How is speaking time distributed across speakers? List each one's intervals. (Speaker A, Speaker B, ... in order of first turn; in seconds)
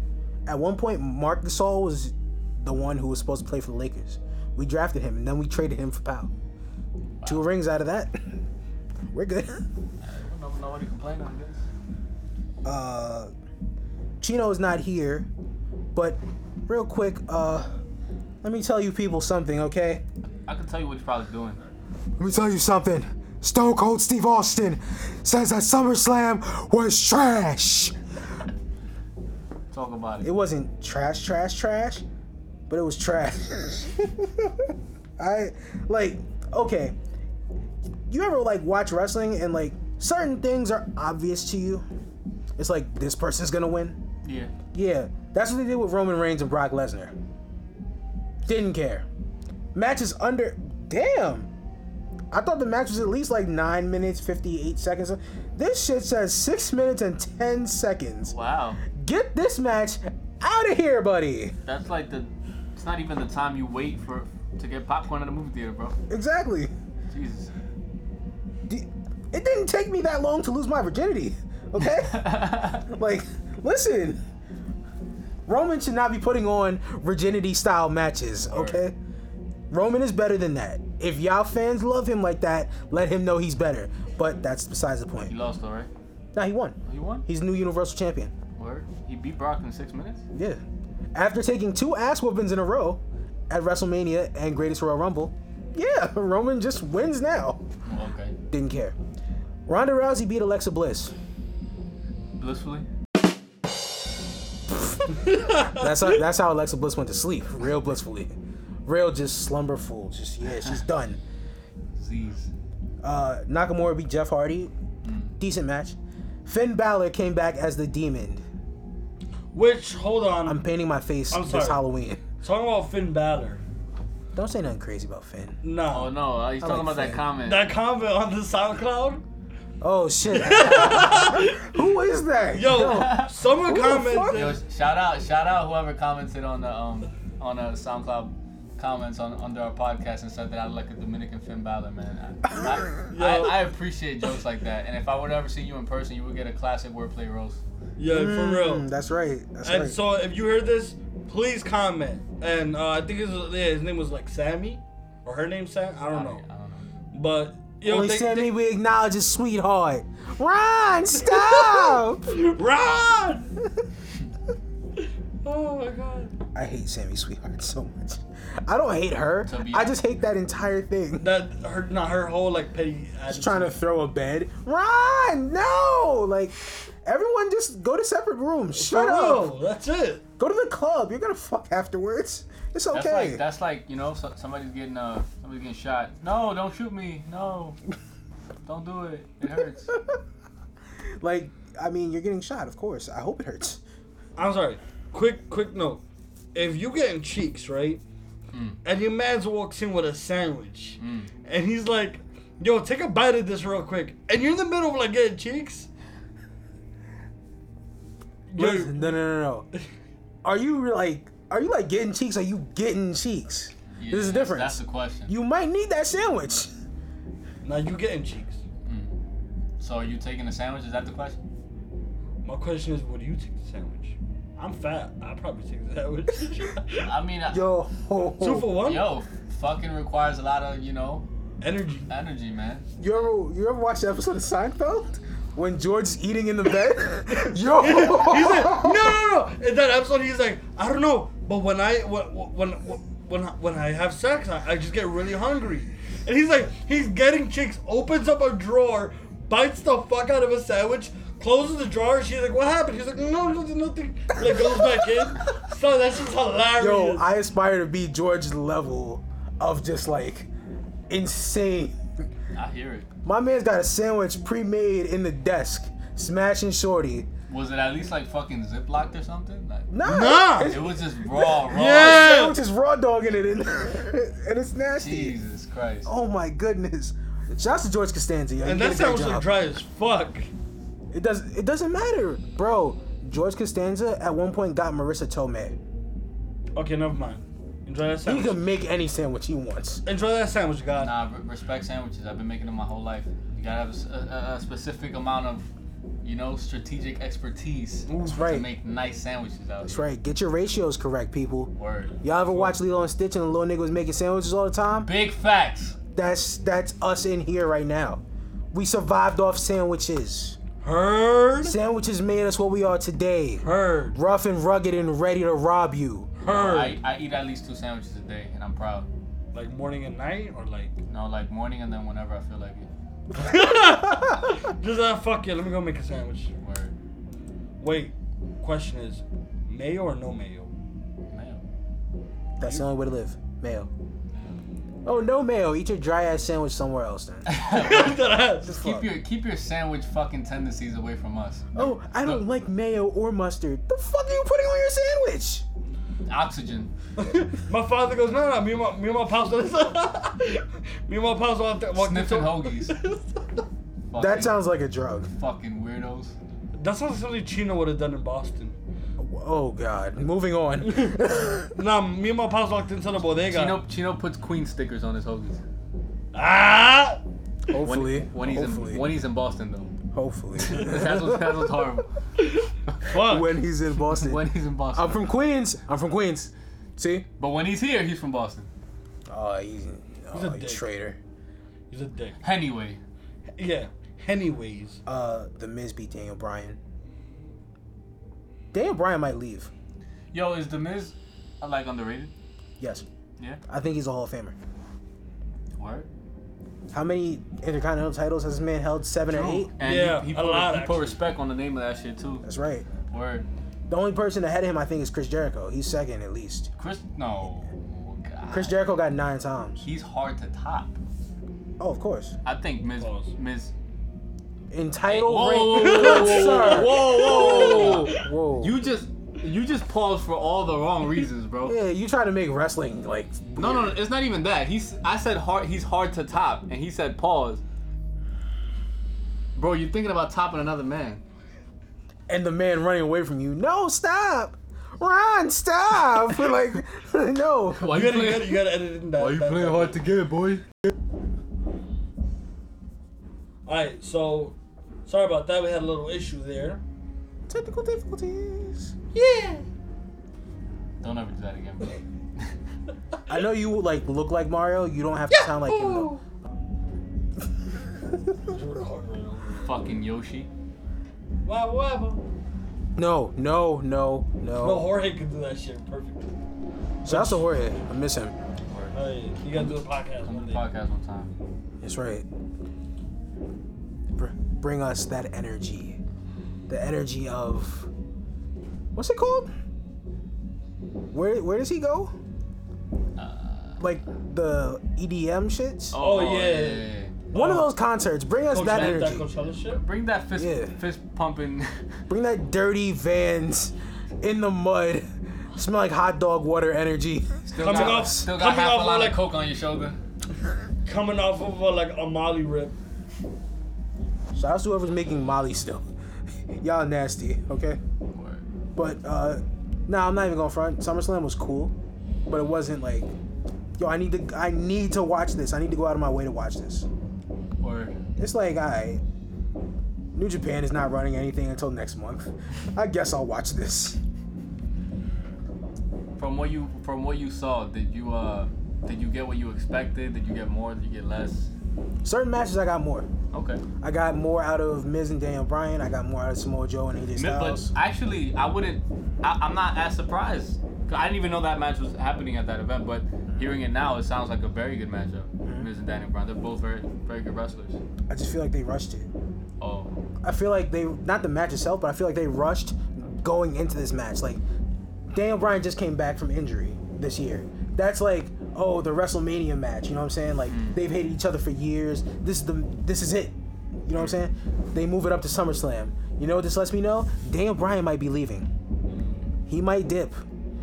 Speaker A: 0.5-6.3, 7.2-8.3, 9.1-9.6, 12.6-13.3, 14.2-15.3, 15.9-17.7, 18.4-20.0, 22.2-27.9, 30.2-32.0, 32.7-37.0, 38.1-41.8, 42.6-44.0, 44.7-47.1, 48.5-49.0, 49.7-51.5, 52.3-58.3, 58.9-61.5, 66.1-66.7, 68.7-74.2, 75.5-78.9, 79.7-85.3, 86.3-88.3, 90.3-90.6, 91.1-97.6, 98.5-99.0, 99.7-101.1, 104.7-111.2, 113.0-114.7, 115.4-118.4, 120.5-122.2, 124.3-125.6, 126.6-127.2, 129.8-134.5, 142.6-142.8, 148.1-149.9, 157.8-162.2, 166.5-171.3, 173.3-179.5, 180.4-183.4, 189.9-190.2, 191.2-193.8, 208.6-209.7, 210.4-216.7, 227.5-228.7, 233.0-239.1, 254.5-255.1, 256.8-260.5, 261.1-262.0, 263.2-267.3, 269.9-275.4, 276.0-279.4, 281.1-285.8, 288.2-290.0, 298.1-298.7, 299.8-305.1, 306.1-308.2, 308.7-310.6, 311.6-316.3, 332.6-333.9, 335.0-337.5, 338.6-339.1, 341.8-345.6, 354.2-355.3, 359.2-361.7, 367.7-369.0, 370.1-371.9, 373.2-377.2, 379.3-381.2, 385.1-386.8, 388.7-389.7, 392.8-393.1, 393.7-394.6, 396.9-399.7, 402.4-402.9, 403.9-406.7, 408.5-409.8, 411.8-412.4, 414.7-418.7, 421.6-424.0, 432.3-437.9, 447.5-448.9, 453.3-456.1, 462.9-464.9, 467.0-468.3, 471.8-472.2, 474.1-476.0, 476.7-477.9, 478.9-479.5, 481.1-482.1, 483.8-485.9, 487.3-489.3, 490.3-490.7, 492.1-498.3, 504.3-505.9, 506.6-507.8, 508.8-511.7, 512.3-513.1, 513.8-516.9, 518.2-519.0, 520.1-524.0, 532.0-533.1, 533.8-537.7, 545.4-545.7, 548.1-549.1, 550.2-554.4, 555.1-568.5, 569.5-570.2
Speaker B: 7.2-7.5, 10.0-11.6, 20.4-21.6, 29.7-30.3, 44.2-44.5, 58.3-58.8, 61.6-66.0, 67.1-67.5, 71.8-72.8, 78.5-78.8, 85.2-85.9, 86.9-87.2, 88.5-90.2, 97.8-98.3, 102.4-102.9, 112.0-112.5, 115.0-115.4, 125.9-127.7, 130.6-131.3, 132.7-133.3, 134.3-147.6, 156.1-156.9, 169.4-170.0, 182.9-187.8, 188.7-189.9, 198.5-198.8, 201.0-201.3, 213.9-215.3, 218.8-219.1, 219.8-221.4, 227.0-227.6, 228.8-231.2, 232.1-232.9, 262.5-263.1, 267.5-269.9, 270.6-272.4, 275.0-276.1, 291.0-295.7, 296.2-300.1, 301.8-302.7, 305.0-306.0, 316.4-319.1, 321.1-322.9, 326.6-326.9, 331.3-331.6, 334.3-335.1, 337.4-342.4, 346.3-346.9, 351.9-352.9, 354.1-354.6, 355.3-356.3, 363.5-365.6, 367.7-369.9, 370.6-372.1, 374.0-375.2, 377.4-378.7, 382.4-383.0, 390.3-392.3, 395.8-396.1, 399.3-402.5, 403.1-403.5, 406.8-408.8, 409.8-410.9, 412.4-413.7, 415.1-421.8, 423.6-427.6, 429.6-431.2, 437.7-438.6, 439.1-440.6, 451.0-452.5, 459.6-460.5, 468.7-468.9, 469.5-471.3, 483.2-483.8, 485.9-487.2, 488.6-489.1, 489.8-491.9, 497.5-500.0, 508.1-508.4, 517.6-518.0, 526.2-531.5, 533.3-533.6, 537.1-547.8, 549.6-550.0, 560.5-560.8
Speaker C: 105.2-106.0, 119.5-120.6, 121.3-121.8, 122.4-123.6, 125.6-126.1, 127.4-129.2, 130.3-131.9, 132.5-134.6, 143.1-143.6, 148.0-148.9, 149.6-156.4, 157.1-158.5, 161.2-163.5, 165.4-166.3, 171.2-173.8, 178.8-180.2, 194.4-196.0, 196.5-198.0, 198.8-205.9, 208.5-209.2, 217.6-218.6, 222.4-227.1, 228.4-229.1, 231.6-232.1, 237.8-257.3, 270.0-270.8, 271.7-272.6, 278.6-280.5, 286.8-288.6, 290.1-291.1, 310.8-311.8, 313.6-314.2, 316.4-317.0, 319.5-320.9, 323.3-326.5, 327.8-330.7, 332.6-332.9, 337.7-338.7, 347.2-353.6, 356.7-358.8, 360.8-361.2, 361.7-363.8, 366.3-367.2, 373.0-373.5, 380.3-380.8, 381.9-382.4, 383.6-385.0, 399.8-401.2, 413.0-413.3, 415.7-418.2, 437.9-440.0, 443.6-446.8, 449.1-449.6, 455.3-456.2, 458.4-459.7, 461.4-462.2, 464.6-466.3, 467.1-467.5, 468.9-470.6, 486.0-487.7, 488.5-489.8, 497.6-499.2, 500.9-502.7, 568.9-569.3